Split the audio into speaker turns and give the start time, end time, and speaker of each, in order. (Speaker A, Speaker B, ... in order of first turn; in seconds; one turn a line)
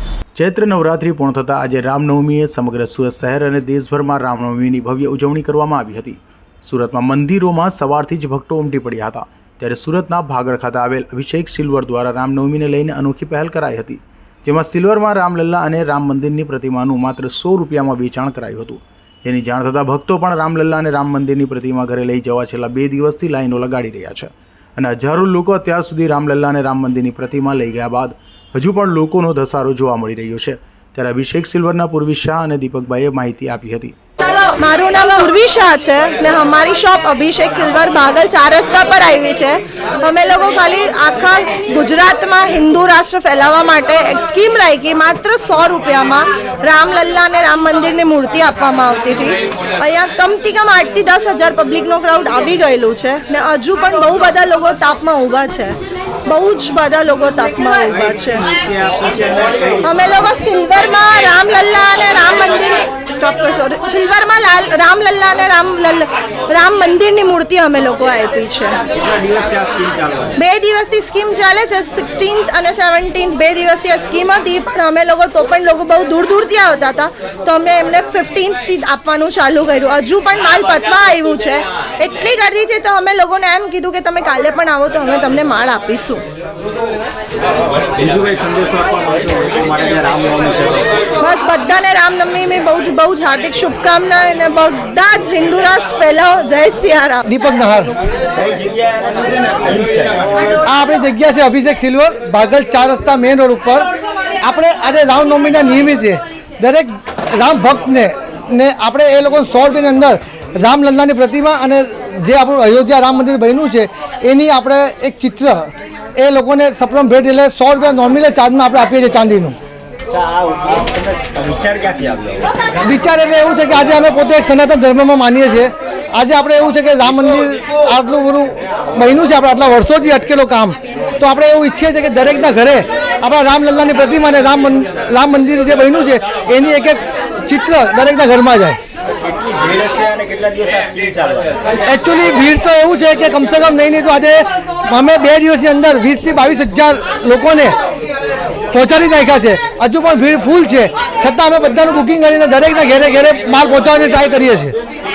Speaker A: 0.4-34.0
Speaker B: 34.3-58.5
Speaker C: 58.0-60.0
Speaker B: 59.8-68.8
Speaker C: 68.9-70.4
Speaker B: 70.4-86.2
Speaker C: 88.0-90.9
Speaker B: 91.2-97.3
Speaker D: 97.3-98.0
Speaker C: 98.3-100.6
Speaker D: 100.6-103.9
Speaker D: 104.4-119.6
Speaker C: 120.1-122.7
Speaker D: 122.8-138.8
Speaker C: 139.2-141.7
Speaker D: 141.9-147.8
Speaker D: 148.7-154.8